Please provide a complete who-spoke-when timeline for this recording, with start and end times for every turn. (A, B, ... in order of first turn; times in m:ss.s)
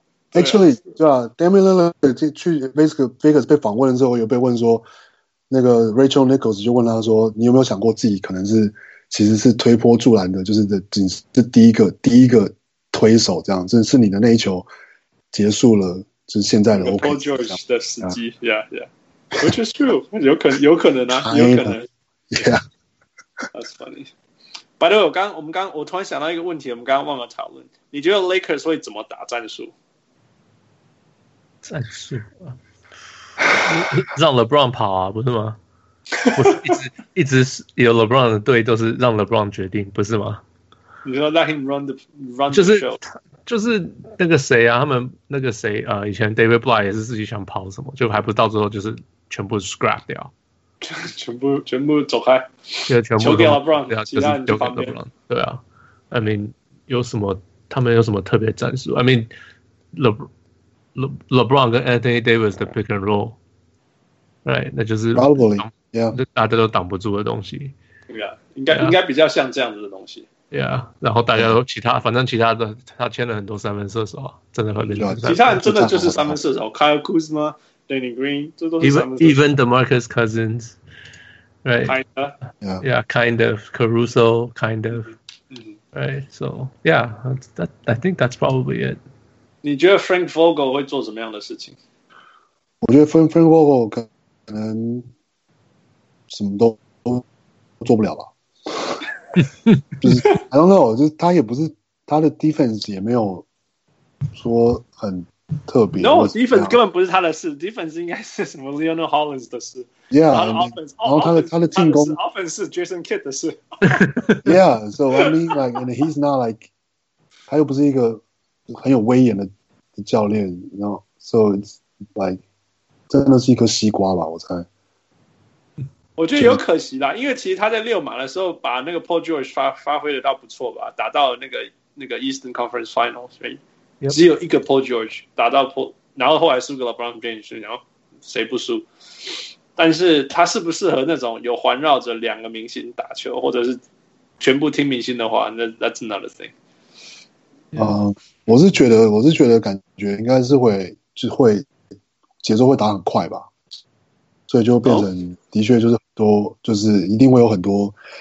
0:00.3-0:04.8 A
0:05.5-0:14.7 A
0:15.3-0:18.2 A
0:16.8-0:21.9 B
0:21.1-0:21.8 A
0:22.3-0:22.6 A
0:23.5-0:24.1 B
0:24.8-0:29.7 B
0:31.6-0:32.6 C
0:33.5-0:35.6 C
0:36.2-0:36.6 B
0:36.3-0:40.4 C
0:41.0-0:43.0 B
0:42.5-0:50.3 C
0:50.8-0:54.9 B
0:52.9-0:59.3 C
0:59.9-1:00.3 C
1:01.0-1:03.4 C
1:04.4-1:07.7 C
1:05.1-1:06.2 A
1:08.1-1:10.3 B
1:08.7-1:09.0 C
1:10.5-1:15.6 C
1:14.8-1:19.4 B
1:15.0-1:16.4 A
1:18.8-1:20.8 C
1:21.6-1:22.0 C
1:21.9-1:22.4 B
1:22.8-1:25.1 C
1:25.5-1:25.8 B
1:25.9-1:29.0 C
1:29.6-1:31.8 B
1:32.8-1:35.1 A
1:36.3-1:37.3 A
1:37.8-1:39.0 A
1:40.0-1:43.5 A
1:44.4-1:46.8 A
1:46.0-1:54.2 B
1:50.1-1:52.2 A
1:54.0-1:54.4 C
1:54.4-1:56.7 A
1:55.2-1:55.5 B
1:57.5-2:02.4 A
2:03.1-2:04.7 A
2:06.2-2:18.9 B
2:19.8-2:23.8 B
2:24.4-2:26.5 B
2:27.7-2:31.7 A
2:32.4-2:33.5 A
2:34.5-2:38.0 A